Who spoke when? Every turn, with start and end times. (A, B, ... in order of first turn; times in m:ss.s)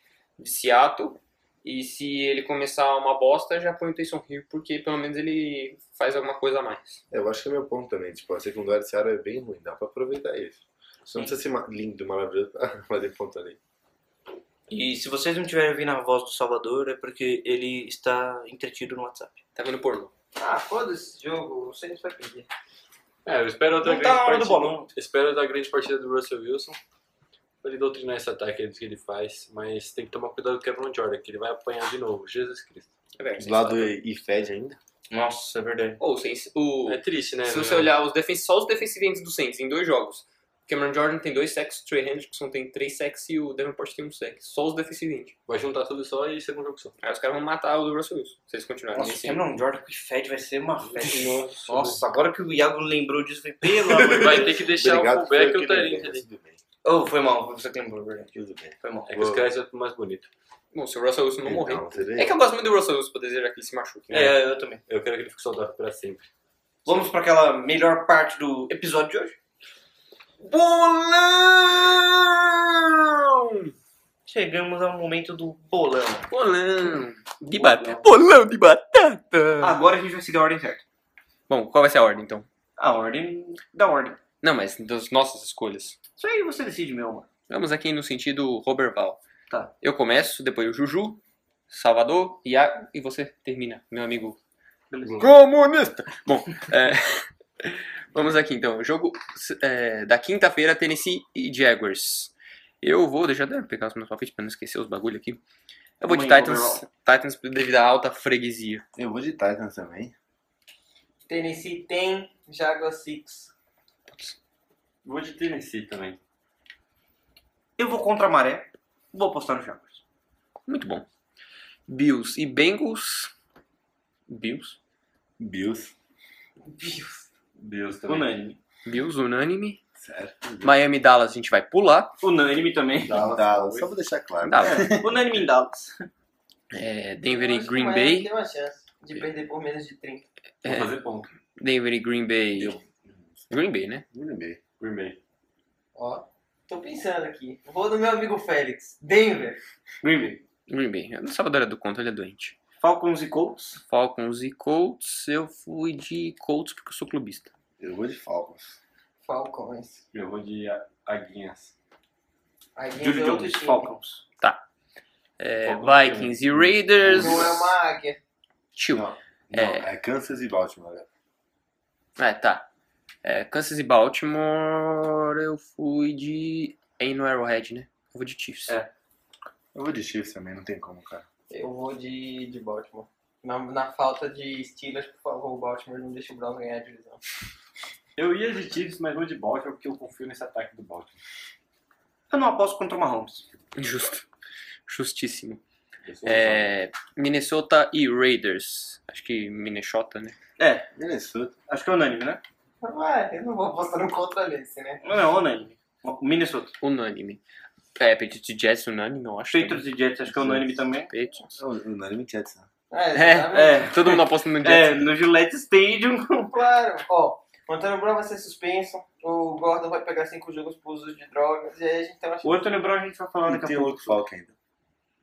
0:00.4-0:07.0 A
0:07.1-0:10.6 B
0:11.1-0:11.3 A
0:11.1-0:13.6 B
0:14.7-0:19.4 C
0:19.6-0:20.1 A
0:20.4-0:22.5 D
0:23.2-0:26.8 E
0:23.8-0:24.9 C
0:27.6-0:32.9 E
0:33.2-0:33.9 A
0:33.4-0:34.8 B
0:35.1-0:36.0 C
0:36.0-0:45.4 A
0:36.9-0:37.9 E
0:45.5-0:46.9 E
0:47.0-0:49.4 A
0:48.9-0:54.6 C
0:50.8-0:52.0 E
0:53.8-0:56.6 B
0:54.1-0:56.2 E
0:56.8-0:59.3 C
0:58.3-0:59.4 B
0:59.1-1:00.3 E
1:00.7-1:04.3 A
1:01.4-1:02.4 B
1:04.1-1:04.8 C
1:04.1-1:06.3 E
1:06.8-1:09.4 C
1:10.4-1:13.7 A
1:14.3-1:16.2 C
1:16.3-1:19.8 A
1:17.5-1:18.0 C
1:19.6-1:20.8 C
1:21.5-1:22.5 A
1:22.8-1:24.2 C
1:24.4-1:26.0 A
1:26.2-1:27.3 C
1:27.5-1:29.2 A
1:29.8-1:34.4 A
1:34.9-1:35.3 C
1:35.2-1:45.4 A
1:46.0-1:48.8 A
1:46.0-1:46.8 C
1:49.0-1:50.1 B
1:51.3-1:53.5 D
1:54.1-1:54.4 A
1:55.0-1:56.2 E
1:57.8-2:00.0 C
2:00.7-2:01.0 A
2:01.9-2:03.3 A
2:04.3-2:04.8 A
2:05.4-2:05.9 B
2:06.7-2:07.2 D
2:07.6-2:08.4 E
2:08.1-2:08.6 C
2:08.9-2:09.8 A
2:10.0-2:10.8 B
2:10.6-2:12.2 A
2:12.2-2:13.2 C
2:13.1-2:13.9 E
2:13.1-2:15.1 B
2:14.4-2:15.1 A
2:14.6-2:16.1 C
2:16.7-2:18.3 A
2:17.3-2:20.2 D
2:20.6-2:20.9 A
2:20.6-2:21.3 E
2:21.6-2:22.8 A
2:22.6-2:23.4 B
2:23.5-2:24.0 A
2:24.1-2:24.6 B
2:24.8-2:25.2 E
2:26.0-2:29.6 D
2:30.0-2:30.4 C
2:30.7-2:32.6 A
2:32.8-2:33.8 C
2:33.9-2:37.5 A
2:37.8-2:38.8 B
2:39.2-2:40.0 D
2:40.1-2:41.7 E
2:42.8-2:43.9 D
2:43.0-2:44.2 C
2:45.4-2:47.6 A
2:45.6-2:47.5 E
2:47.1-2:48.2 D
2:48.8-2:49.9 A
2:48.9-2:51.1 B
2:52.2-2:52.7 A
2:53.2-2:58.8 A
2:59.7-3:01.2 B
3:01.5-3:07.2 D
3:08.2-3:11.2 E
3:12.3-3:13.4 C
3:13.8-3:14.2 A
3:14.9-3:15.6 A
3:16.1-3:16.7 E
3:16.2-3:20.4 A
3:20.6-3:20.9 C
3:21.0-3:21.6 B
3:21.7-3:22.4 C
3:22.8-3:25.0 D
3:25.0-3:26.7 C
3:26.8-3:27.4 A
3:28.0-3:29.9 A
3:29.5-3:31.1 C
3:30.3-3:30.7 B
3:31.1-3:31.6 A
3:31.6-3:32.6 B
3:32.9-3:33.9 D
3:33.2-3:35.1 A
3:33.5-3:36.5 C
3:36.5-3:42.6 D
3:42.4-3:44.2 C
3:43.5-3:44.5 B